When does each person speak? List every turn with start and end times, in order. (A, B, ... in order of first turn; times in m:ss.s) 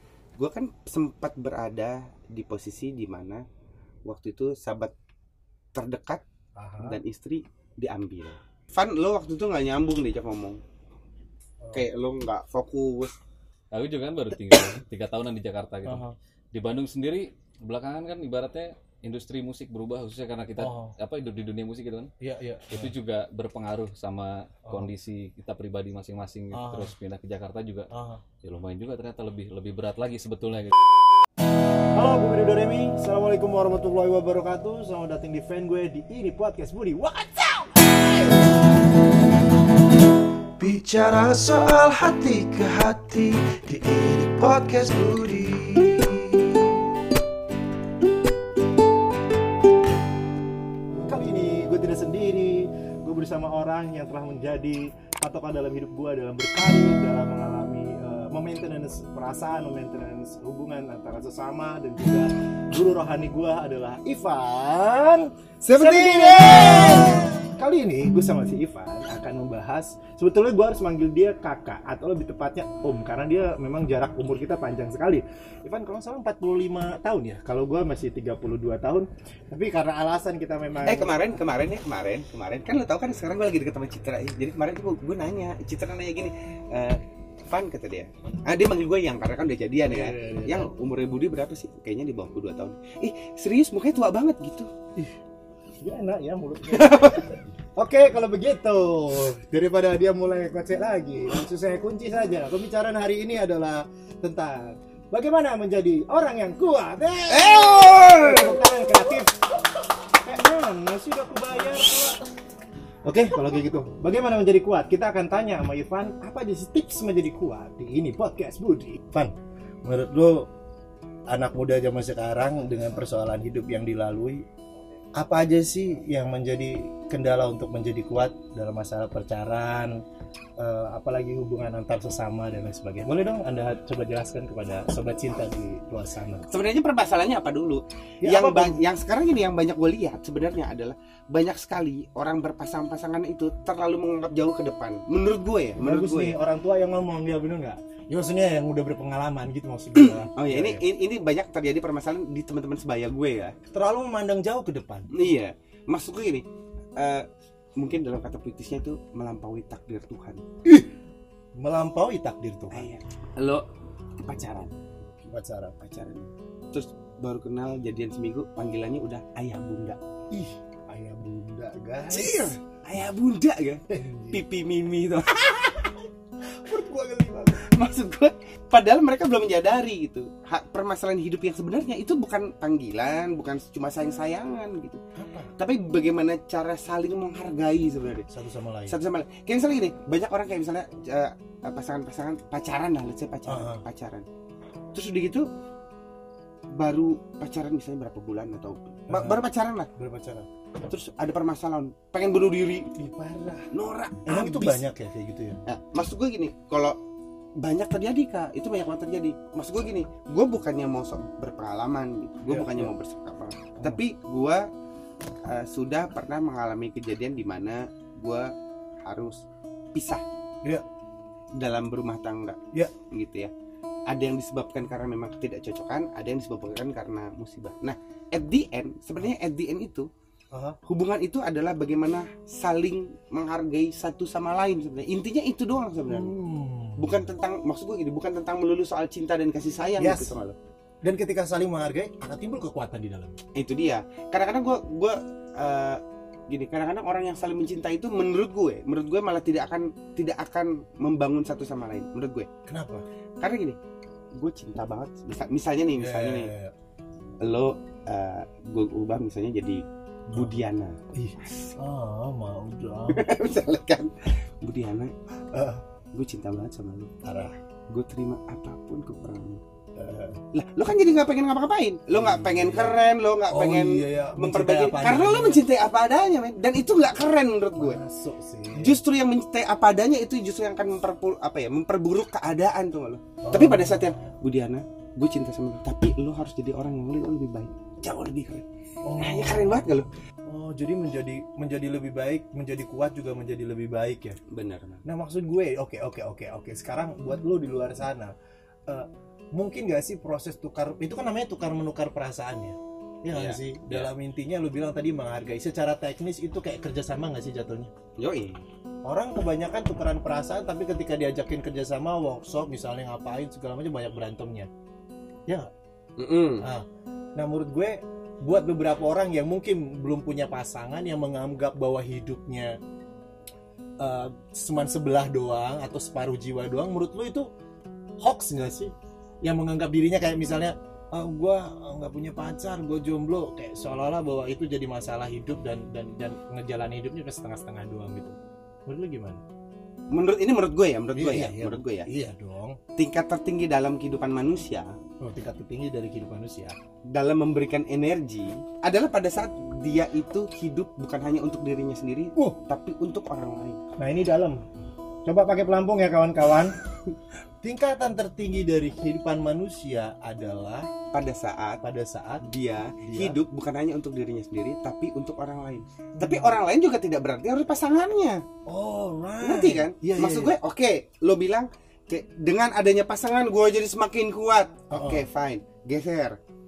0:00.4-0:03.4 A
0:04.0-0:04.9 A
0:05.7-0:06.2 A
0:06.6-0:07.0 B
0:06.8-0:10.6 A
0:11.6-0:11.9 B
0:11.7-0:13.1 A
0:13.7-0:22.1 C
0:15.8-0:16.1 B
0:20.6-0:20.9 B
0:22.2-0:22.9 B
0:22.7-0:27.9 C
0:26.5-0:26.9 B
0:27.9-0:28.2 B
0:28.4-0:30.7 C
0:31.9-0:38.1 B
0:40.6-0:46.7 D
0:51.1-1:21.4 B
1:05.7-1:07.3 A
1:20.8-1:34.7 A
1:29.8-1:30.7 B
1:35.8-1:49.4 B
1:36.7-1:37.3 A
1:47.3-1:48.6 A
1:50.2-1:52.2 B
1:53.0-1:59.3 B
1:59.8-2:00.4 B
2:01.3-2:04.4 B
2:05.2-2:10.0 B
2:10.6-2:16.5 B
2:16.5-2:26.3 A
2:18.2-2:18.8 B
2:25.8-2:30.8 B
2:30.0-2:33.5 A
2:33.7-2:35.1 B
2:35.1-2:36.4 A
2:37.0-2:40.4 A
2:41.6-2:42.9 B
2:42.7-2:43.6 A
2:44.2-2:44.7 A
2:45.3-2:45.8 B
2:45.8-2:50.0 A
2:50.3-2:52.5 B
2:52.1-2:56.0 A
2:53.9-2:54.4 B
2:56.5-2:57.6 B
2:57.6-3:05.0 A
3:05.2-3:05.5 B
3:05.6-3:08.3 A
3:08.3-3:08.9 B
3:08.9-3:14.2 A
3:13.4-3:13.8 B
3:14.9-3:15.4 A
3:16.7-3:19.9 A
3:19.1-3:19.4 B
3:20.0-3:20.5 B
3:20.9-3:22.9 A
3:23.0-3:23.7 B
3:23.7-3:24.9 A
3:24.2-3:25.6 B
3:25.6-3:27.0 A
3:27.6-3:34.6 A
3:32.5-3:32.9 B
3:35.4-3:38.5 A
3:39.0-3:39.4 A
3:39.9-3:40.2 A
3:41.6-3:42.6 A
3:43.1-3:43.5 A
3:44.1-3:50.1 A
3:50.5-3:50.8 B
3:50.9-3:56.3 A
3:56.1-3:57.3 B
3:57.0-4:00.6 A
4:00.0-4:00.4 B
4:01.0-4:03.4 B
4:03.6-4:12.5 A
4:12.7-4:13.0 B
4:13.4-4:13.8 A
4:14.4-4:16.5 A
4:16.0-4:16.7 B
4:17.4-4:19.8 A
4:20.3-4:20.6 B
4:20.3-4:21.7 A
4:21.1-4:23.3 B
4:23.1-4:25.1 A
4:25.5-4:25.8 B
4:26.1-4:27.1 A
4:27.2-4:27.5 B
4:27.9-4:29.6 A
4:30.0-4:30.4 B
4:30.5-4:38.0 A
4:32.1-4:35.6 B
4:37.7-4:39.0 B
4:38.7-4:48.6 A
4:43.4-4:44.3 B
4:49.0-4:49.9 B
4:49.2-4:50.1 A
4:50.4-4:54.4 B
4:54.5-4:55.0 A
4:55.0-4:58.3 B
4:58.9-5:07.9 B
5:03.3-5:04.1 A
5:08.2-5:08.6 A
5:09.0-5:14.7 B
5:16.2-5:16.7 A
5:17.4-5:22.7 B
5:24.0-5:27.5 B
5:28.2-5:28.9 B
5:29.4-5:39.4 B
5:40.1-5:42.0 A
5:41.1-5:42.8 B
5:43.0-5:44.9 A
5:45.2-5:46.8 B
5:47.1-5:53.8 A
5:54.0-5:54.6 B
5:55.2-5:56.7 B
5:57.6-6:00.9 B
6:01.1-6:01.8 A
6:01.8-6:02.4 B
6:02.4-6:08.4 A
6:03.0-6:03.4 B
6:06.2-6:06.6 B
6:08.7-6:10.5 B
6:09.4-6:16.4 A
6:14.9-6:15.3 B